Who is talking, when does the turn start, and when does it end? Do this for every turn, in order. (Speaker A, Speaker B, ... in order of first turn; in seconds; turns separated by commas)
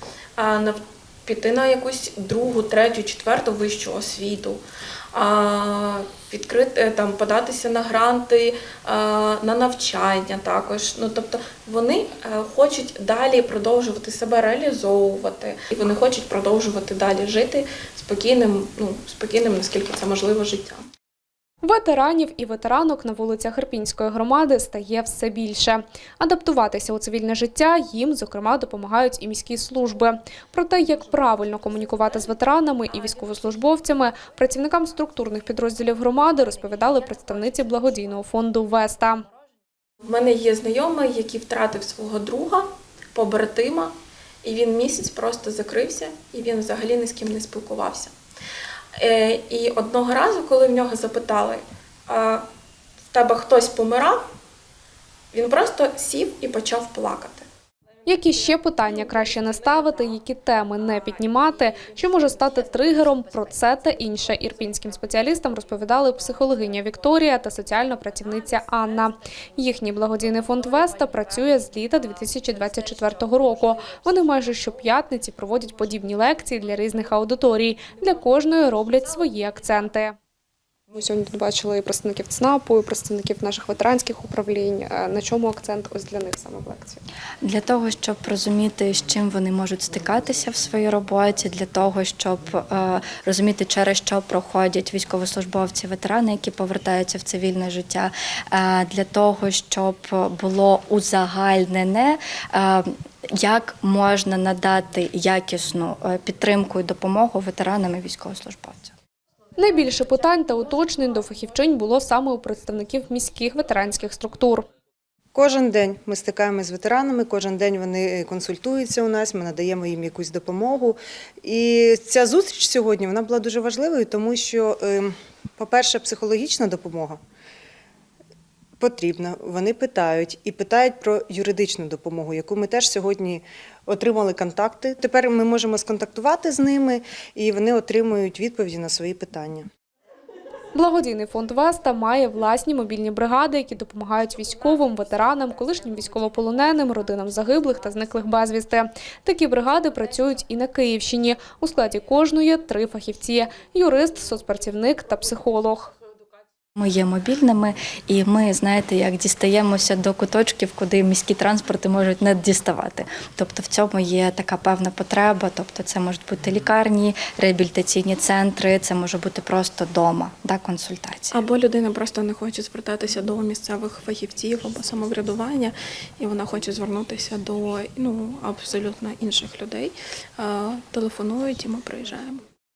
Speaker A: 0.4-20.8, Speaker B: 21.6-39.2, Speaker A: 40.0-48.1, Speaker A: 49.0-52.5, Speaker A: 53.1-54.3, Speaker A: 55.3-57.5, Speaker B: 58.0-80.1, Speaker A: 60.8-62.5, Speaker A: 72.4-74.5, Speaker A: 76.0-77.3, Speaker A: 77.9-78.9, Speaker B: 80.9-87.0, Speaker C: 87.4-108.9, Speaker B: 109.6-114.7, Speaker D: 115.3-127.2, Speaker D: 128.8-139.7, Speaker B: 140.8-155.9, Speaker C: 156.8-171.4, Speaker A: 171.3-182.4